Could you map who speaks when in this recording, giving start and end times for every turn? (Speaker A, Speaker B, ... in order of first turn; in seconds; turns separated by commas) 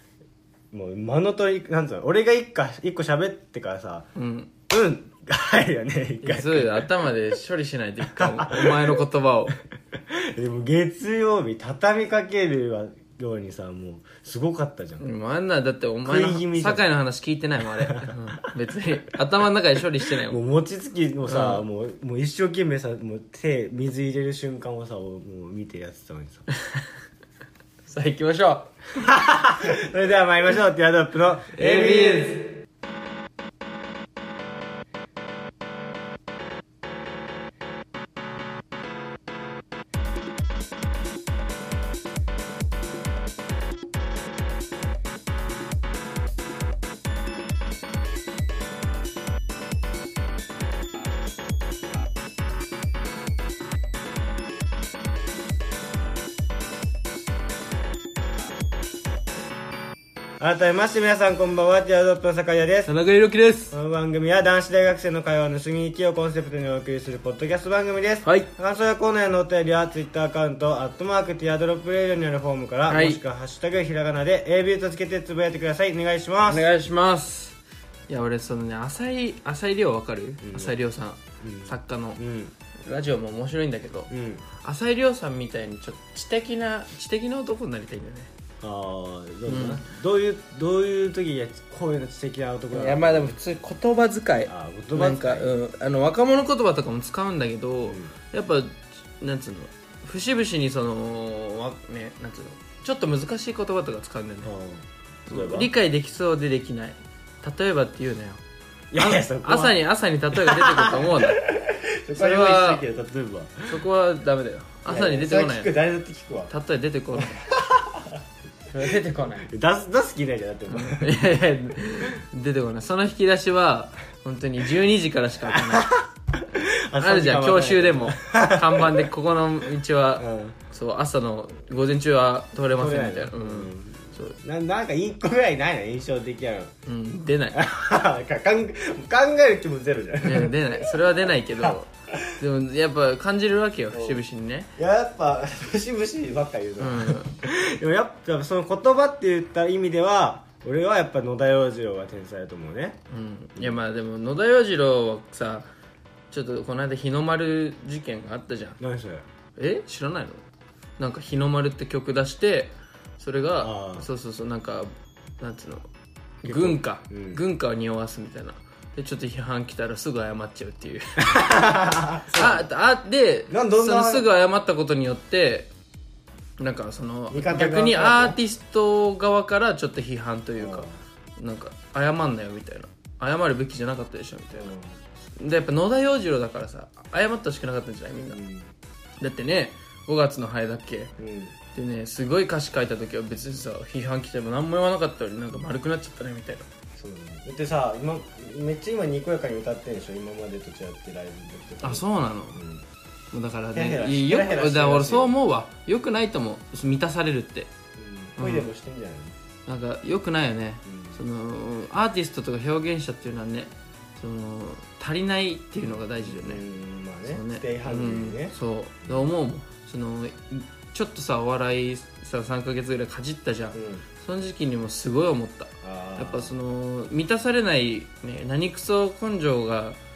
Speaker A: 0.7-4.1, Speaker B: 4.1-4.5, Speaker A: 4.7-6.9, Speaker B: 6.2-9.5, Speaker A: 8.1-9.0, Speaker A: 10.1-15.0, Speaker B: 15.0-20.4, Speaker A: 16.0-16.9, Speaker A: 17.8-18.5, Speaker A: 20.3-26.5, Speaker B: 21.2-21.6, Speaker B: 27.8-28.7, Speaker A: 28.9-32.4, Speaker B: 31.5-32.5, Speaker A: 60.4-62.9, Speaker B: 62.9-63.7, Speaker A: 63.7-76.7, Speaker B: 68.2-68.5, Speaker B: 72.9-73.2, Speaker B: 76.4-77.6, Speaker B: 78.1-82.2, Speaker A: 80.4-80.8, Speaker A: 81.4-82.5, Speaker B: 82.8-88.3, Speaker A: 84.1-84.4, Speaker A: 88.6-93.3, Speaker B: 89.5-89.8, Speaker B: 92.7-104.5, Speaker A: 94.5-95.6, Speaker A: 97.8-98.1, Speaker A: 104.4-105.7, Speaker B: 105.3-108.4, Speaker A: 108.9-109.8, Speaker B: 109.0-111.4, Speaker A: 110.3-113.8, Speaker B: 112.1-112.8, Speaker B: 113.7-115.7, Speaker A: 114.9-116.5, Speaker B: 116.5-117.4, Speaker A: 117.1-118.2, Speaker B: 118.7-119.5, Speaker A: 119.5-121.2, Speaker B: 120.7-125.9, Speaker A: 125.5-129.1, Speaker B: 127.0-134.4, Speaker A: 130.2-130.6, Speaker A: 132.7-136.7, Speaker B: 136.8-137.6, Speaker A: 137.5-141.0, Speaker B: 140.2-144.7, Speaker A: 141.6-142.3, Speaker A: 143.9-144.2, Speaker A: 144.8-153.0, Speaker B: 146.8-147.3, Speaker B: 153.1-155.7, Speaker A: 153.6-153.8, Speaker B: 156.3-158.8, Speaker A: 158.8-159.2, Speaker B: 159.6-160.4, Speaker B: 161.0-165.9, Speaker A: 163.6-164.1, Speaker B: 166.4-171.5, Speaker A: 166.4-167.4, Speaker A: 171.2-172.7, Speaker B: 172.3-175.7, Speaker A: 173.5-174.2, Speaker B: 176.6-184.7, Speaker A: 177.3-178.4, Speaker A: 180.6-181.0, Speaker A: 184.5-185.0, Speaker B: 185.3-188.4, Speaker A: 188.3-188.7, Speaker B: 189.2-191.1, Speaker A: 191.2-191.5, Speaker B: 191.7-196.7, Speaker A: 197.0-202.8, Speaker B: 201.8-202.6, Speaker B: 203.3-207.7, Speaker A: 203.7-205.3, Speaker A: 207.9-209.3, Speaker B: 208.4-208.7, Speaker B: 209.7-216.6, Speaker A: 210.8-211.2, Speaker A: 216.1-219.3, Speaker B: 217.2-230.0, Speaker A: 223.7-224.0, Speaker A: 225.8-226.5